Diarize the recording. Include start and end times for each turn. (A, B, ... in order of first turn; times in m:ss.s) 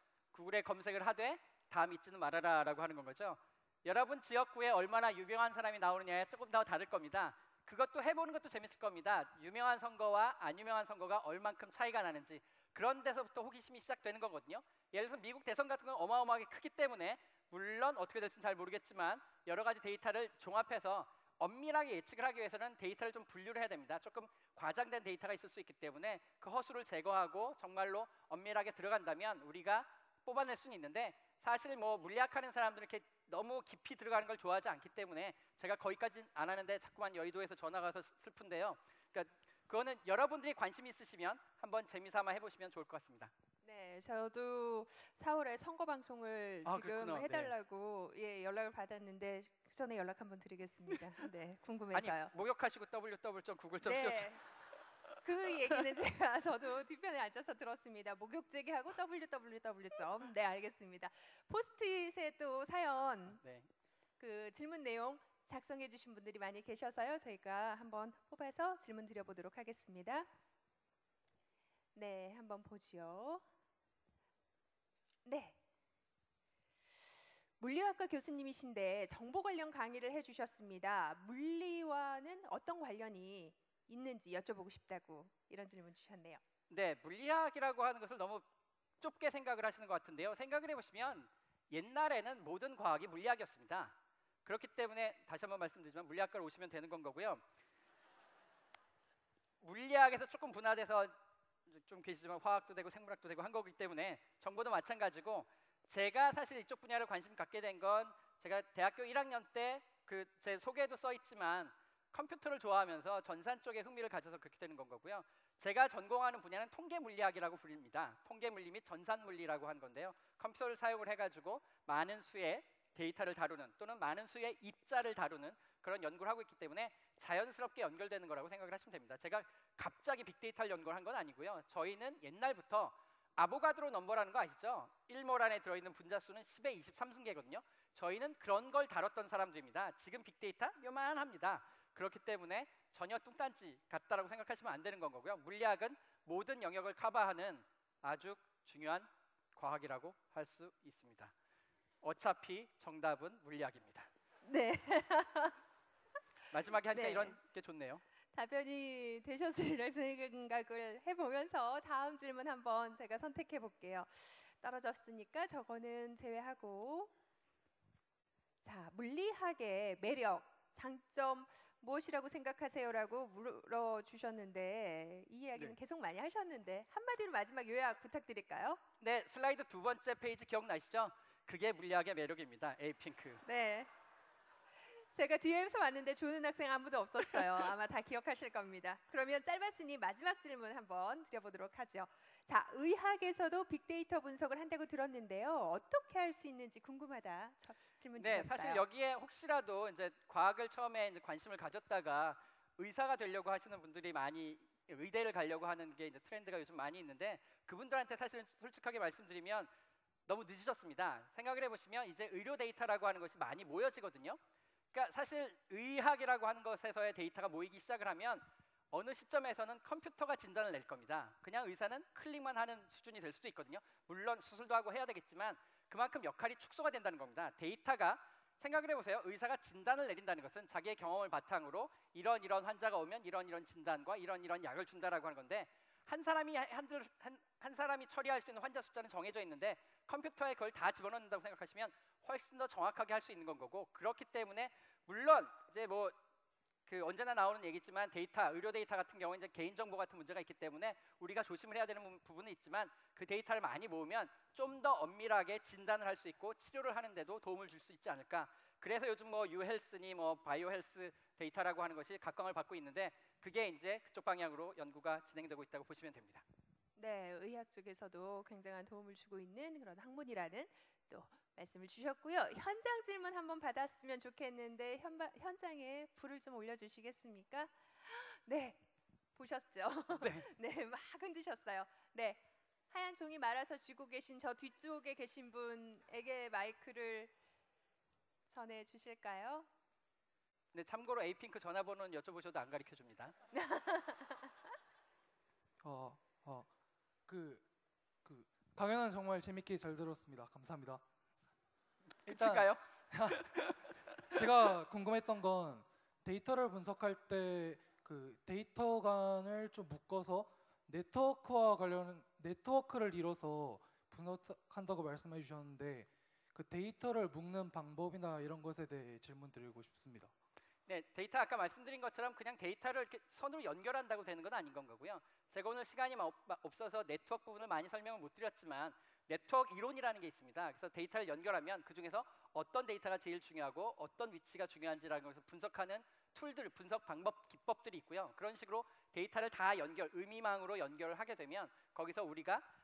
0:00.3-0:43.3 A
0:43.6-0:52.3 B
0:46.6-0:47.5 A
0:51.9-0:54.4 A
0:53.8-0:54.4 B
0:55.2-1:03.4 B
1:03.4-1:03.7 A
1:04.2-1:10.3 B
1:11.9-1:13.4 B
1:15.2-1:15.6 B
1:17.6-1:26.4 B
1:26.7-1:28.4 A
1:29.0-1:37.4 A
1:39.6-1:41.1 A
1:41.7-2:31.3 A
2:32.0-2:34.1 A
2:34.4-2:35.6 B
2:36.5-2:38.0 A
2:36.9-2:37.4 B
2:38.3-2:47.1 B
2:48.6-2:58.8 B
2:59.0-3:03.4 A
3:03.4-3:03.9 B
3:04.9-3:18.8 B
3:18.2-3:29.7 A
3:30.3-3:34.4 A
3:34.9-4:06.1 A
4:06.9-4:26.4 A
4:27.0-4:47.3 B
4:40.1-4:40.5 A
4:48.5-4:49.7 B
4:50.7-4:53.3 A
4:53.5-4:54.4 B
4:55.8-4:56.7 C
4:57.3-4:57.6 C
4:58.2-5:01.0 C
5:02.3-5:04.4 A
5:02.3-5:03.4 C
5:04.3-5:20.3 C
5:20.9-5:42.6 A